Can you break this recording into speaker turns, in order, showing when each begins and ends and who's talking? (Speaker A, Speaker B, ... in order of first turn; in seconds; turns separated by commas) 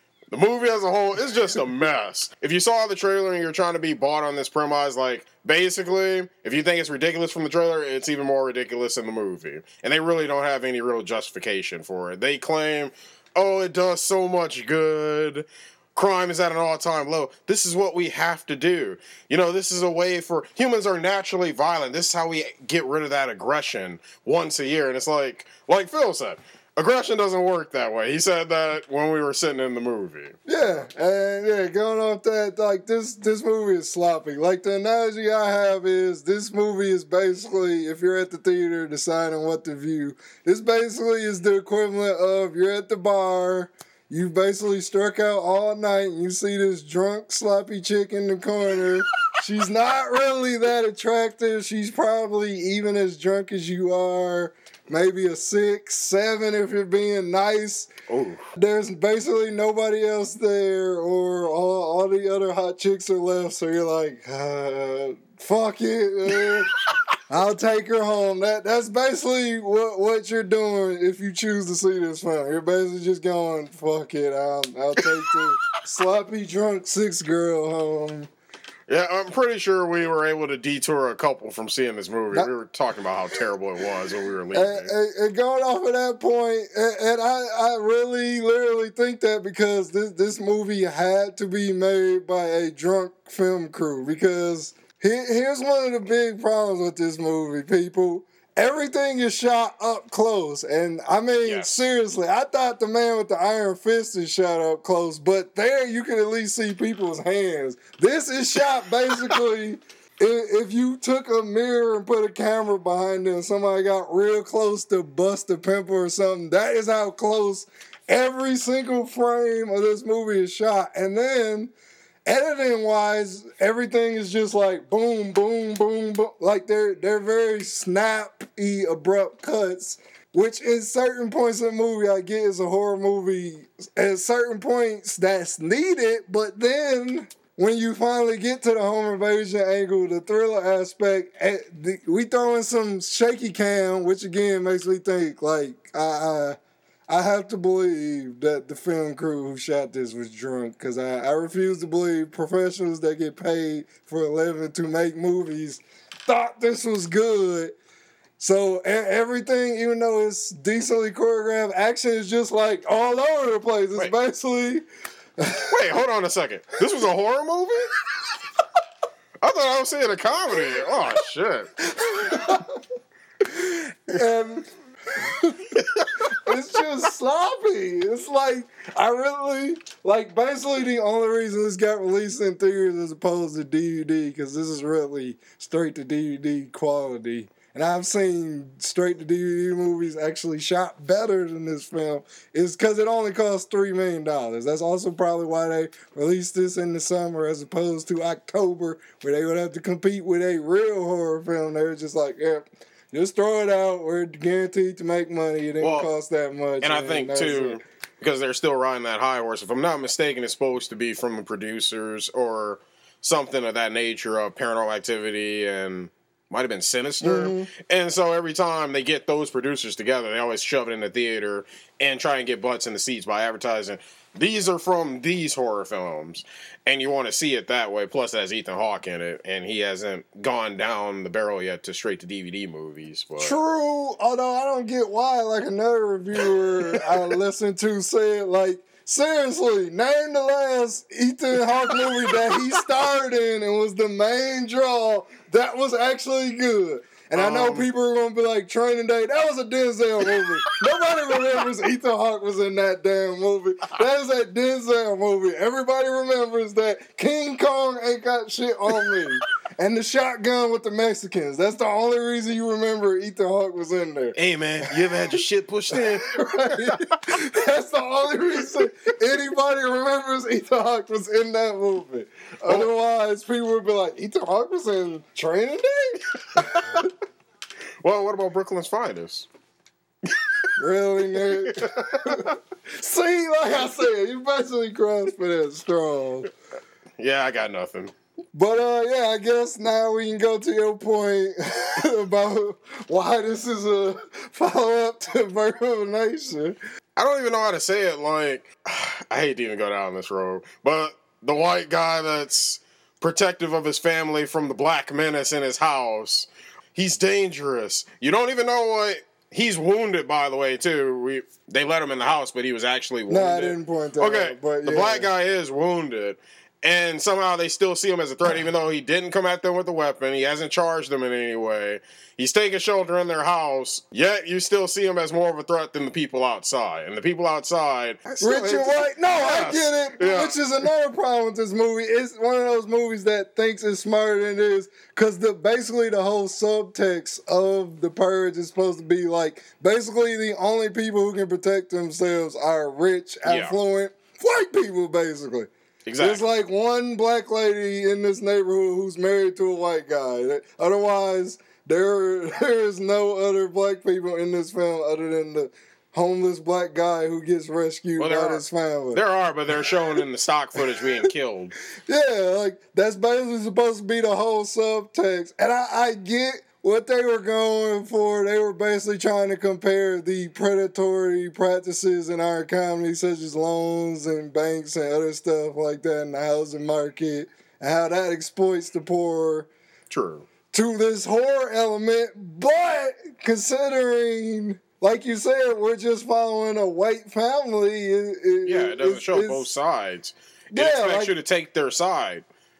Speaker A: 0.3-30.4, Speaker B: 30.4-57.9, Speaker A: 58.1-58.4, Speaker B: 58.5-66.7, Speaker B: 67.3-78.3, Speaker A: 78.9-84.9, Speaker B: 84.5-121.7, Speaker A: 101.4-101.8, Speaker B: 122.2-146.6, Speaker B: 147.1-157.7, Speaker B: 158.4-164.8, Speaker B: 165.4-165.7, Speaker A: 165.7-167.9, Speaker A: 169.4-171.7, Speaker B: 172.0-172.7, Speaker B: 173.5-207.8, Speaker A: 205.8-206.1, Speaker A: 206.8-233.5, Speaker B: 217.2-217.7, Speaker B: 233.4-264.4, Speaker A: 247.3-247.9, Speaker A: 264.4-267.0, Speaker B: 265.9-277.1, Speaker A: 278.0-279.4, Speaker B: 280.8-286.5, Speaker A: 281.5-282.4, Speaker A: 287.2-288.1, Speaker B: 288.5-296.8, Speaker A: 297.2-330.6, Speaker B: 313.3-315.3, Speaker B: 328.4-359.2, Speaker A: 343.4-343.7, Speaker A: 346.1-346.4, Speaker A: 358.2-361.7, Speaker B: 362.1-379.7, Speaker A: 380.1-380.4, Speaker B: 380.7-389.6, Speaker A: 388.6-392.4, Speaker B: 390.7-391.3